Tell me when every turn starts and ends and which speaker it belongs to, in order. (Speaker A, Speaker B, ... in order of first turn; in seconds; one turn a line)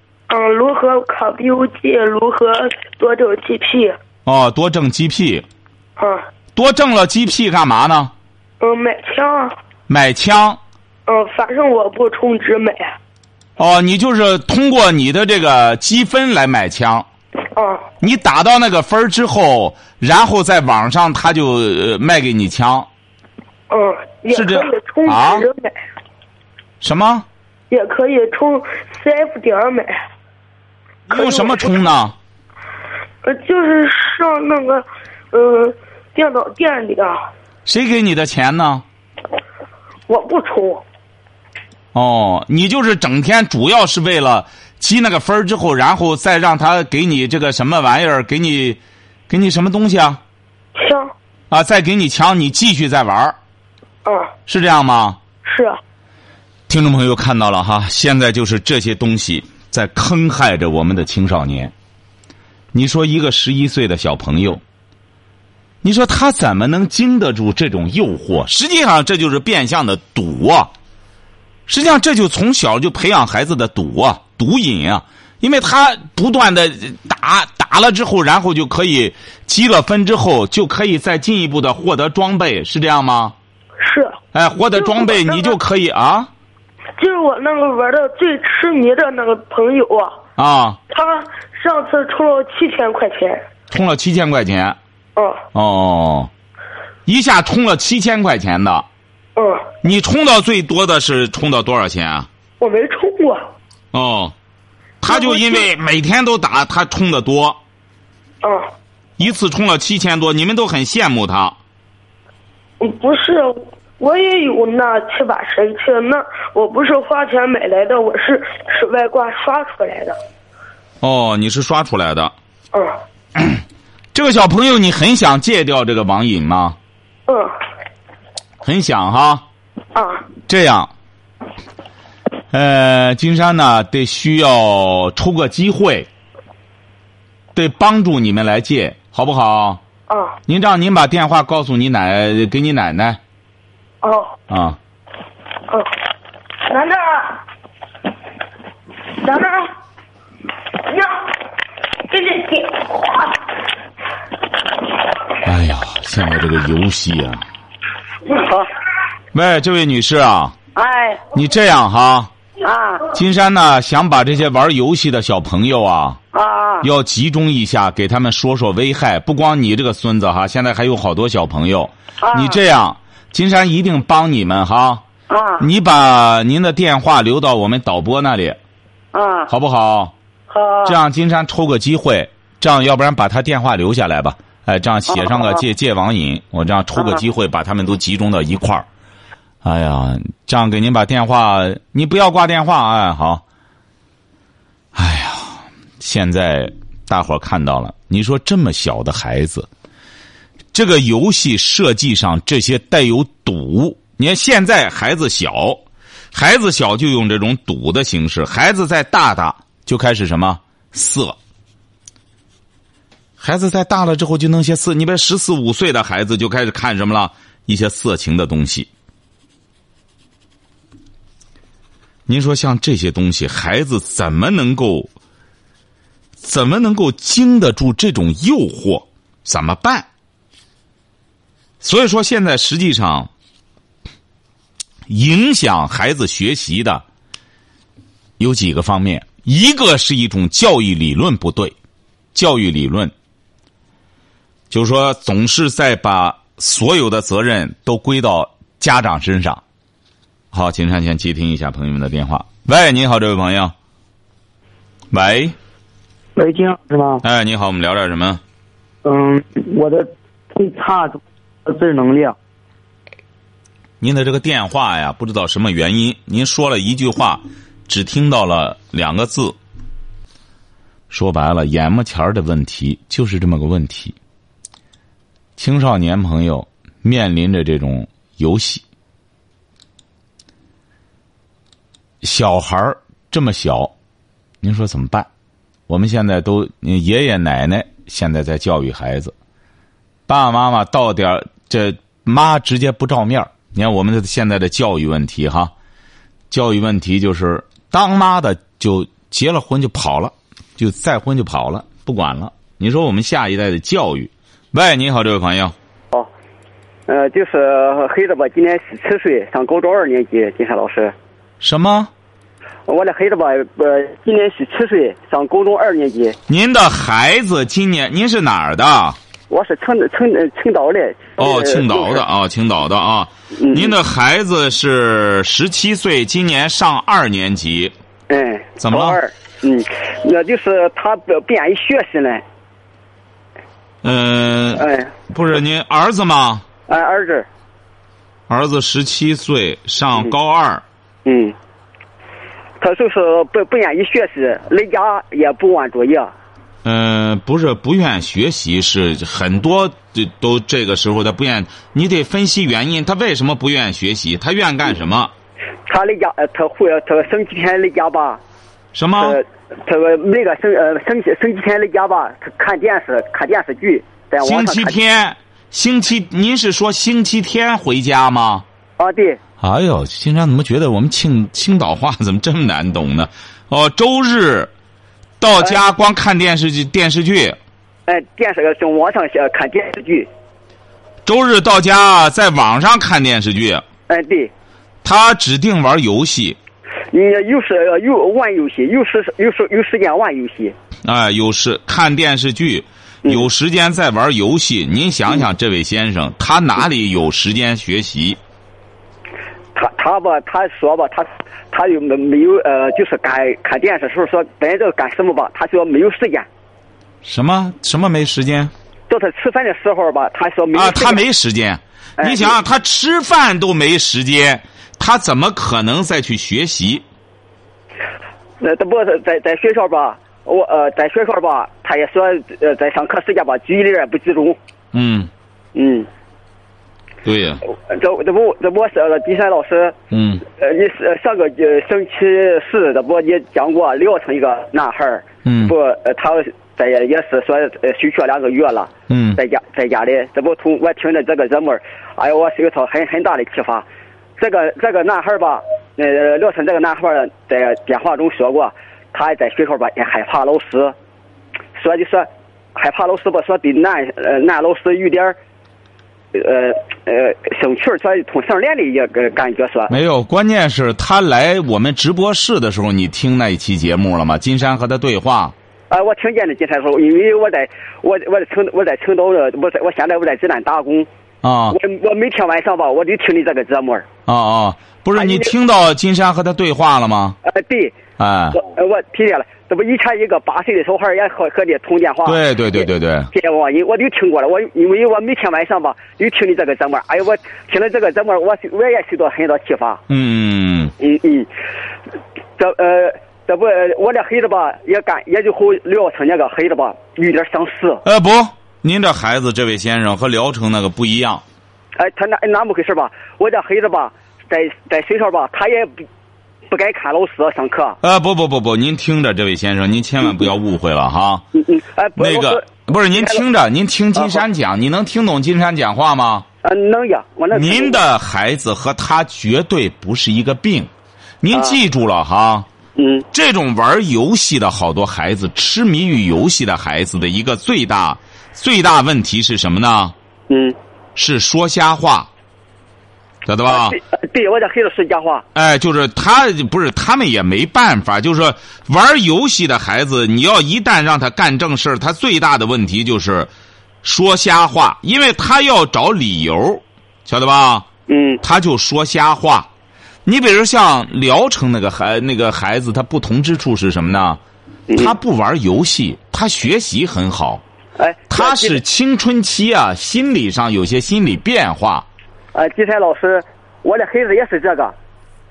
Speaker A: 0.3-4.0
Speaker B: 4.3-5.5
Speaker A: 6.0-6.2
Speaker B: 6.5-8.1
Speaker A: 8.6-9.5
Speaker B: 9.9-10.6
Speaker A: 11.1-13.0
Speaker B: 13.6-17.1
Speaker A: 17.6-17.9
Speaker B: 18.0-22.9
Speaker A: 23.7-25.8
Speaker B: 24.3-25.5
Speaker B: 26.8-27.3
Speaker A: 27.7-30.0
Speaker B: 31.1-32.1
Speaker A: 31.1-31.8
Speaker A: 33.2-37.2
Speaker B: 37.7-38.9
Speaker A: 40.1-40.8
Speaker B: 41.9-50.2
Speaker A: 50.8-51.1
Speaker B: 51.5-53.4
Speaker A: 54.0-54.3
Speaker B: 54.5-55.2
Speaker A: 55.5-55.8
Speaker B: 56.7-61.7
Speaker B: 62.7-64.6
Speaker B: 65.8-70.7
Speaker B: 71.7-83.3
Speaker A: 83.8-84.2
Speaker B: 84.3-86.3
Speaker A: 84.8-85.5
Speaker A: 87.0-90.2
Speaker B: 90.4-90.8
Speaker A: 90.9-93.5
Speaker B: 93.7-94.8
Speaker A: 95.2-95.4
Speaker B: 95.5-96.3
Speaker B: 97.1-98.9
Speaker A: 99.4-99.7
Speaker B: 99.8-102.3
Speaker A: 102.6-103.5
Speaker B: 103.9-104.3
Speaker B: 105.0-107.6
Speaker A: 105.1-105.7
Speaker A: 108.4-108.7
Speaker B: 109.2-111.6
Speaker A: 112.8-120.2
Speaker B: 121.0-122.3
Speaker B: 123.4-123.6
Speaker B: 124.1-126.8
Speaker A: 127.3-127.5
Speaker B: 128.6-129.4
Speaker A: 129.9-130.2
Speaker B: 130.5-130.9
Speaker B: 132.5-136.1
Speaker B: 137.6-139.8
Speaker A: 140.1-140.4
Speaker B: 140.5-143.2
Speaker A: 144.0-144.3
Speaker B: 144.5-144.8
Speaker A: 146.7-147.4
Speaker A: 149.1-149.7
Speaker A: 150.9-151.3
Speaker A: 152.0-153.3
Speaker B: 155.4-157.4
Speaker B: 159.3-160.6
Speaker C: 160.8-161.2
Speaker B: 161.3-162.3
Speaker C: 162.6-163.1
Speaker B: 163.1-166.2
Speaker C: 166.3-166.9
Speaker B: 166.8-175.0
Speaker C: 172.2-172.6
Speaker C: 175.3-175.7
Speaker B: 175.6-178.6
Speaker C: 179.1-179.5
Speaker B: 179.5-180.1
Speaker C: 180.5-181.0
Speaker B: 180.9-188.9
Speaker B: 189.6-193.4
Speaker B: 194.9-199.7
Speaker B: 200.7-205.8
Speaker B: 206.3-211.4
Speaker B: 213.4-218.9
Speaker B: 222.3-225.1
Speaker B: 226.4-230.1
Speaker B: 231.8-233.3
Speaker B: 235.1-237.0
Speaker B: 238.4-241.7
Speaker B: 242.3-243.1
Speaker B: 244.7-249.6
Speaker B: 250.5-253.7
Speaker B: 255.1-255.6
Speaker D: 256.4-257.2
Speaker B: 257.2-258.4
Speaker D: 259.1-262.4
Speaker B: 264.0-269.6
Speaker B: 271.1-274.2
Speaker B: 275.6-278.8
Speaker B: 282.2-283.9
Speaker B: 284.6-285.3
Speaker B: 285.9-289.3
Speaker B: 290.3-295.7
Speaker B: 296.5-305.8
Speaker E: 307.1-311.1
Speaker B: 311.6-312.1
Speaker E: 312.9-316.4
Speaker B: 316.5-319.2
Speaker E: 319.5-322.2
Speaker B: 321.4-327.9
Speaker E: 323.6-323.9
Speaker E: 328.3-332.4
Speaker B: 328.8-329.2
Speaker B: 334.0-336.6
Speaker E: 334.8-335.1
Speaker E: 336.9-337.5
Speaker B: 338.5-340.8
Speaker E: 341.2-341.6
Speaker E: 342.8-346.3
Speaker B: 346.8-355.3
Speaker E: 355.9-358.4
Speaker B: 358.9-359.4
Speaker E: 359.2-364.9
Speaker B: 364.4-368.6
Speaker E: 369.0-369.4
Speaker B: 369.6-374.7
Speaker B: 375.4-377.6
Speaker E: 378.1-380.3
Speaker B: 381.2-383.8
Speaker E: 384.1-384.5
Speaker B: 385.0-386.6
Speaker E: 387.1-390.8
Speaker B: 391.0-398.4
Speaker E: 399.8-406.5
Speaker B: 407.2-408.7
Speaker E: 409.1-411.2
Speaker B: 410.7-417.1
Speaker E: 412.2-412.6
Speaker E: 418.6-424.6
Speaker B: 424.9-425.3
Speaker E: 425.8-426.1
Speaker B: 427.2-427.6
Speaker E: 427.7-430.0
Speaker B: 430.1-430.4
Speaker E: 430.5-443.9
Speaker B: 435.4-435.7
Speaker B: 439.1-439.4
Speaker E: 444.4-450.9
Speaker E: 451.8-455.4
Speaker E: 456.3-459.9
Speaker B: 459.9-465.6
Speaker E: 465.9-471.1
Speaker B: 471.4-471.8
Speaker E: 471.7-474.1
Speaker B: 474.3-477.4
Speaker E: 475.2-475.5
Speaker E: 477.4-478.0
Speaker B: 478.2-478.6
Speaker E: 478.6-482.8
Speaker B: 482.2-483.3
Speaker E: 483.3-490.0
Speaker B: 490.1-490.9
Speaker E: 491.0-491.5
Speaker E: 492.6-498.0
Speaker B: 498.1-501.4
Speaker E: 502.0-506.0
Speaker E: 506.7-508.0
Speaker B: 508.0-511.4
Speaker E: 511.6-513.4
Speaker B: 512.2-516.5
Speaker E: 516.6-518.0
Speaker B: 517.5-520.9
Speaker B: 521.4-522.7
Speaker E: 523.0-523.3
Speaker B: 523.3-530.1
Speaker E: 530.5-530.8
Speaker B: 531.2-532.3
Speaker B: 533.5-534.0
Speaker E: 533.7-535.5
Speaker B: 535.5-543.5
Speaker B: 544.0-547.9
Speaker E: 548.1-548.4
Speaker B: 548.4-549.7
Speaker B: 550.2-554.4
Speaker E: 554.9-555.1
Speaker B: 555.0-557.6
Speaker E: 558.0-558.8
Speaker B: 558.3-562.1
Speaker E: 562.5-565.0